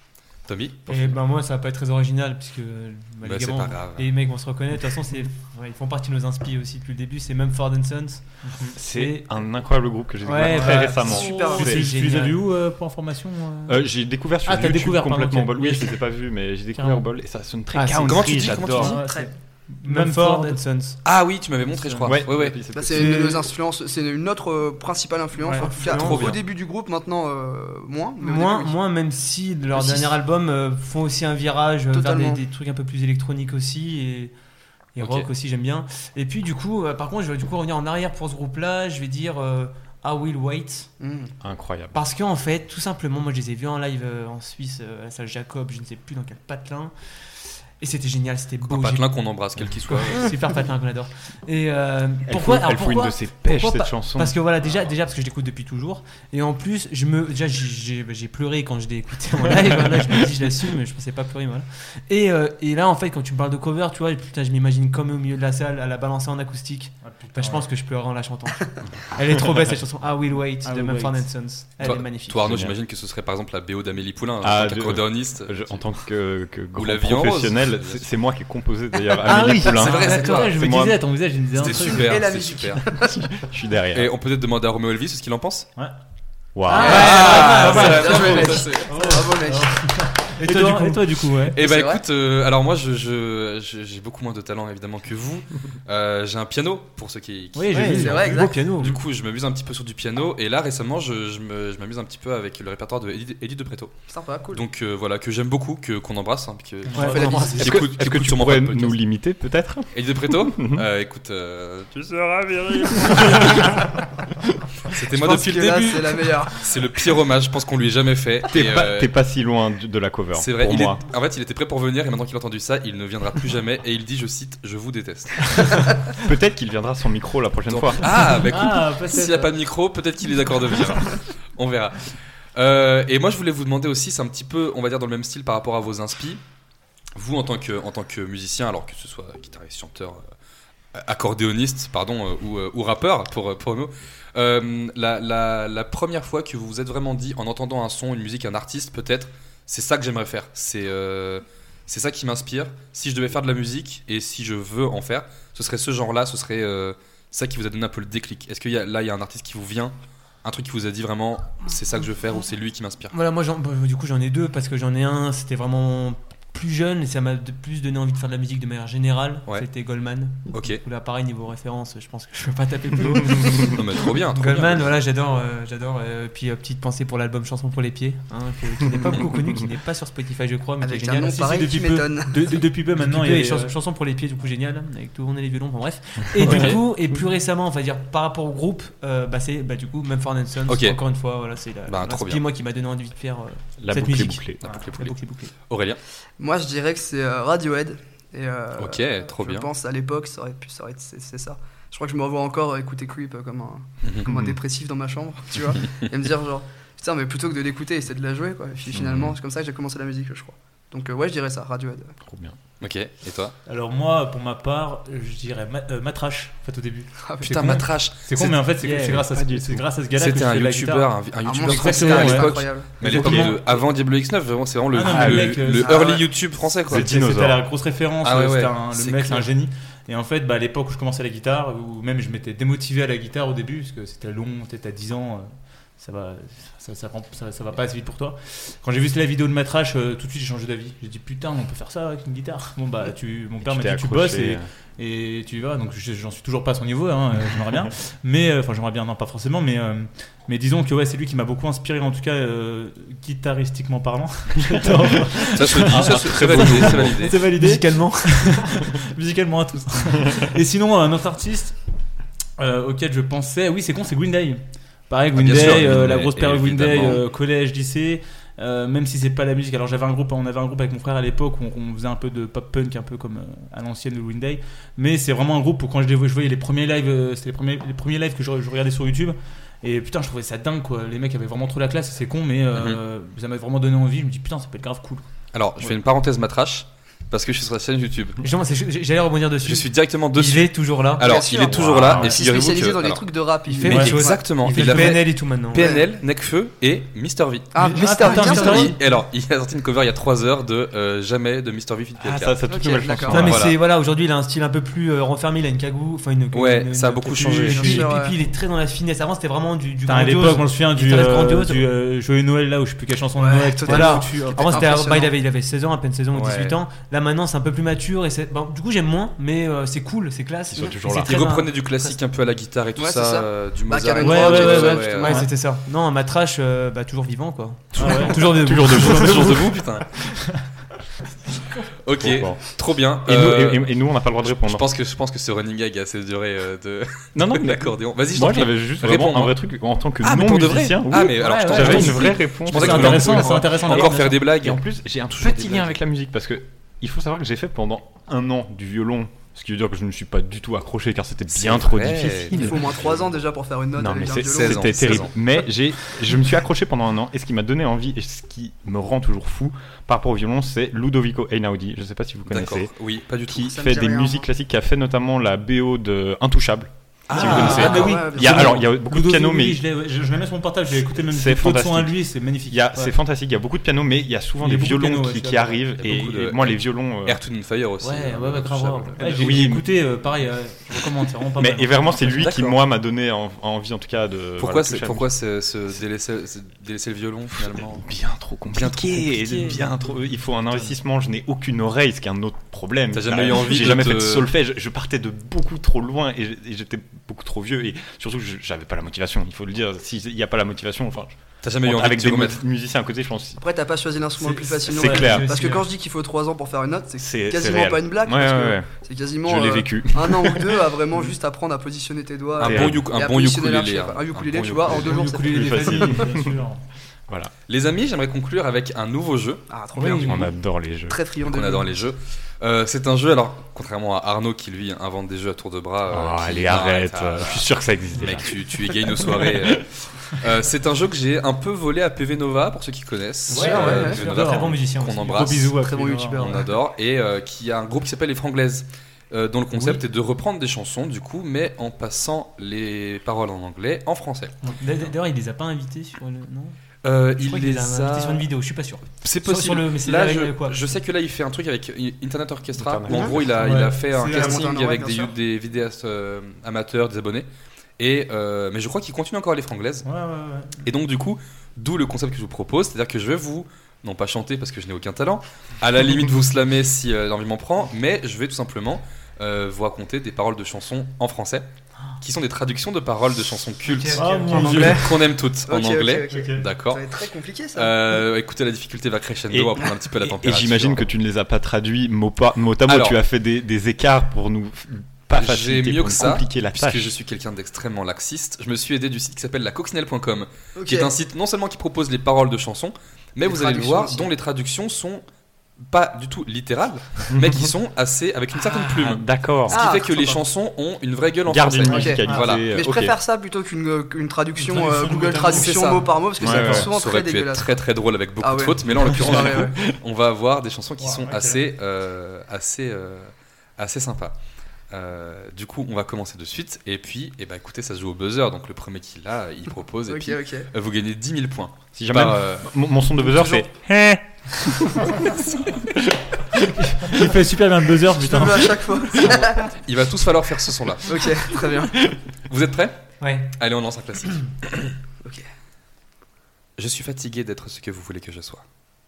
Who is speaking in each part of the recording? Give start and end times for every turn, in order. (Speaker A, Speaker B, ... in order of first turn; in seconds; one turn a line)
Speaker A: 0.5-1.2
Speaker B: 0.9-9.2
Speaker A: 3.2-4.1
Speaker C: 8.4-8.8
Speaker D: 8.7-11.8
Speaker B: 10.2-12.4
Speaker C: 10.4-13.8
Speaker E: 11.0-11.6
Speaker D: 13.7-19.0
Speaker C: 14.4-15.9
Speaker C: 16.8-17.0
Speaker B: 17.7-18.6
Speaker A: 18.0-19.0
Speaker C: 18.7-20.6
Speaker E: 19.0-19.3
Speaker B: 19.8-21.0
Speaker A: 21.0-22.6
Speaker C: 21.8-22.1
Speaker D: 22.0-23.4
Speaker E: 22.7-28.7
Speaker B: 22.9-23.4
Speaker C: 25.4-25.7
Speaker B: 25.6-26.4
Speaker A: 25.8-26.4
Speaker B: 28.2-34.3
Speaker E: 29.7-30.1
Speaker E: 31.9-32.4
Speaker B: 34.9-40.9
Speaker A: 35.0-35.3
Speaker E: 41.0-41.3
Speaker D: 41.4-42.0
Speaker B: 41.9-46.9
Speaker B: 47.8-49.1
Speaker A: 48.6-50.3
Speaker B: 49.9-72.5
Speaker D: 52.3-54.4
Speaker C: 67.0-67.7
Speaker C: 70.6-72.0
Speaker A: 71.8-75.8
Speaker D: 72.4-72.7
Speaker D: 74.4-81.0
Speaker A: 76.8-78.0
Speaker B: 79.2-80.0
Speaker C: 79.7-82.2
Speaker A: 79.7-80.5
Speaker A: 81.5-82.8
Speaker E: 81.6-83.3
Speaker D: 83.1-84.1
Speaker A: 83.9-85.7
Speaker D: 86.5-87.3
Speaker C: 86.7-91.6
Speaker B: 86.7-89.1
Speaker E: 86.8-89.8
Speaker A: 86.8-89.2
Speaker B: 90.4-91.1
Speaker A: 91.5-104.0
Speaker E: 91.6-92.0
Speaker C: 97.6-98.4
Speaker B: 97.6-99.0
Speaker E: 97.9-98.6
Speaker E: 104.1-104.6
Speaker A: 104.5-109.0
Speaker C: 106.9-107.1
Speaker B: 106.9-107.8
Speaker E: 107.0-107.7
Speaker D: 107.5-110.8
Speaker A: 109.9-113.9
Speaker A: 114.9-119.1
Speaker E: 115.1-116.6
Speaker D: 118.5-121.0
Speaker A: 120.3-125.7
Speaker D: 126.2-128.3
Speaker A: 127.7-136.4
Speaker C: 128.5-129.5
Speaker A: 137.1-140.2
Speaker A: 140.9-163.1
Speaker B: 163.1-181.4
Speaker A: 170.5-170.8
Speaker A: 173.5-174.9
Speaker E: 180.8-182.6
Speaker C: 181.2-183.7
Speaker B: 183.0-195.5
Speaker A: 186.4-186.8
Speaker A: 190.7-191.0
Speaker A: 191.9-192.4
Speaker D: 193.8-194.6
Speaker A: 194.6-196.0
Speaker E: 196.4-212.1
Speaker A: 198.8-199.7
Speaker A: 204.0-204.3
Speaker D: 204.2-204.6
Speaker D: 208.9-209.3
Speaker D: 212.2-212.6
Speaker A: 212.8-213.5
Speaker C: 213.7-223.6
Speaker E: 217.2-217.8
Speaker A: 217.4-218.6
Speaker B: 218.8-219.3
Speaker D: 219.3-219.8
Speaker A: 220.2-227.1
Speaker E: 221.4-223.3
Speaker D: 223.0-223.6
Speaker C: 224.9-226.0
Speaker D: 225.0-225.6
Speaker E: 225.8-226.3
Speaker D: 226.9-227.6
Speaker C: 226.9-261.8
Speaker A: 228.2-229.5
Speaker D: 243.6-244.7
Speaker A: 255.4-257.4
Speaker D: 255.9-257.1
Speaker B: 256.8-258.8
Speaker C: 262.6-285.2
Speaker A: 265.3-267.2
Speaker A: 282.7-283.0
Speaker A: 285.5-288.4
Speaker B: 288.4-291.2
Speaker A: 289.6-293.2
Speaker E: 291.2-294.5
Speaker D: 291.7-292.3
Speaker B: 293.7-295.8
Speaker C: 293.9-295.2
Speaker A: 293.9-297.7
Speaker E: 295.7-296.1
Speaker E: 297.7-298.9
Speaker C: 297.8-298.9
Speaker A: 298.2-302.6
Speaker D: 302.2-303.7
Speaker E: 302.7-303.5
Speaker B: 303.3-311.9
Speaker A: 303.3-303.8
Speaker A: 306.5-308.0
Speaker C: 307.6-308.1
Speaker E: 307.6-308.4
Speaker C: 310.1-314.9
Speaker E: 313.4-315.3
Speaker B: 313.8-322.2
Speaker A: 316.3-316.8
Speaker D: 320.7-321.3
Speaker A: 321.2-325.4
Speaker E: 323.0-325.4
Speaker B: 324.2-329.6
Speaker C: 327.9-328.5
Speaker D: 328.0-329.8
Speaker A: 328.9-330.1
Speaker A: 332.0-339.6
Speaker D: 332.2-332.6
Speaker D: 333.2-334.9
Speaker D: 337.3-343.5
Speaker A: 340.2-346.0
Speaker C: 341.4-344.3
Speaker B: 343.2-344.3
Speaker D: 344.5-353.1
Speaker A: 351.5-353.2
Speaker E: 352.5-355.3
Speaker D: 353.9-362.9
Speaker A: 354.4-355.3
Speaker A: 362.5-363.7
Speaker D: 363.5-369.8
Speaker E: 363.6-364.5
Speaker A: 367.3-368.2
Speaker E: 367.3-368.9
Speaker C: 367.4-373.1
Speaker D: 371.3-377.4
Speaker C: 374.6-375.9
Speaker A: 376.0-379.6
Speaker C: 378.0-382.4
Speaker D: 379.2-379.9
Speaker D: 381.6-385.3
Speaker A: 382.3-382.8
Speaker A: 384.6-388.1
Speaker D: 387.5-403.6
Speaker A: 388.7-389.9
Speaker A: 393.1-394.5
Speaker A: 401.6-402.6
Speaker E: 403.6-416.2
Speaker B: 404.4-405.9
Speaker D: 404.9-405.5
Speaker D: 407.2-408.9
Speaker D: 409.4-411.3
Speaker A: 412.6-415.2
Speaker D: 412.6-413.1
Speaker B: 415.1-416.1
Speaker D: 415.3-416.6
Speaker C: 415.3-416.8
Speaker A: 417.7-419.6
Speaker E: 419.7-420.6
Speaker D: 420.0-421.2
Speaker E: 421.1-421.9
Speaker A: 421.4-435.8
Speaker D: 426.1-429.9
Speaker B: 433.5-436.3
Speaker C: 433.5-436.5
Speaker E: 433.6-434.2
Speaker E: 436.2-436.7
Speaker A: 436.4-444.8
Speaker B: 439.7-440.0
Speaker B: 444.8-446.8
Speaker A: 447.0-448.5
Speaker B: 447.4-450.8
Speaker A: 449.2-457.5
Speaker D: 452.7-453.8
Speaker E: 453.1-453.4
Speaker C: 453.6-454.6
Speaker E: 454.1-455.3
Speaker A: 458.0-460.1
Speaker C: 460.0-460.8
Speaker A: 460.8-471.7
Speaker A: 472.2-477.0
Speaker B: 473.8-475.1
Speaker C: 474.1-475.2
Speaker E: 475.7-478.2
Speaker C: 476.3-476.6
Speaker A: 477.7-481.1
Speaker D: 479.5-487.1
Speaker A: 482.9-483.2
Speaker A: 485.3-495.2
Speaker E: 490.8-491.1
Speaker E: 493.4-494.3
Speaker A: 495.8-502.7
Speaker D: 497.4-497.6
Speaker D: 498.5-499.8
Speaker E: 499.7-500.4
Speaker D: 501.4-503.1
Speaker E: 501.9-507.8
Speaker C: 504.6-506.0
Speaker A: 505.4-514.4
Speaker D: 506.4-506.9
Speaker E: 508.4-509.9
Speaker D: 509.1-509.8
Speaker C: 511.0-511.6
Speaker A: 514.9-522.7
Speaker E: 520.1-520.7
Speaker D: 521.9-525.8
Speaker A: 523.3-523.6
Speaker C: 526.6-528.8
Speaker E: 528.2-529.7
Speaker A: 529.8-531.1
Speaker E: 531.1-532.0
Speaker A: 532.5-533.0
Speaker B: 533.2-533.5
Speaker A: 533.5-534.9
Speaker A: 536.8-538.6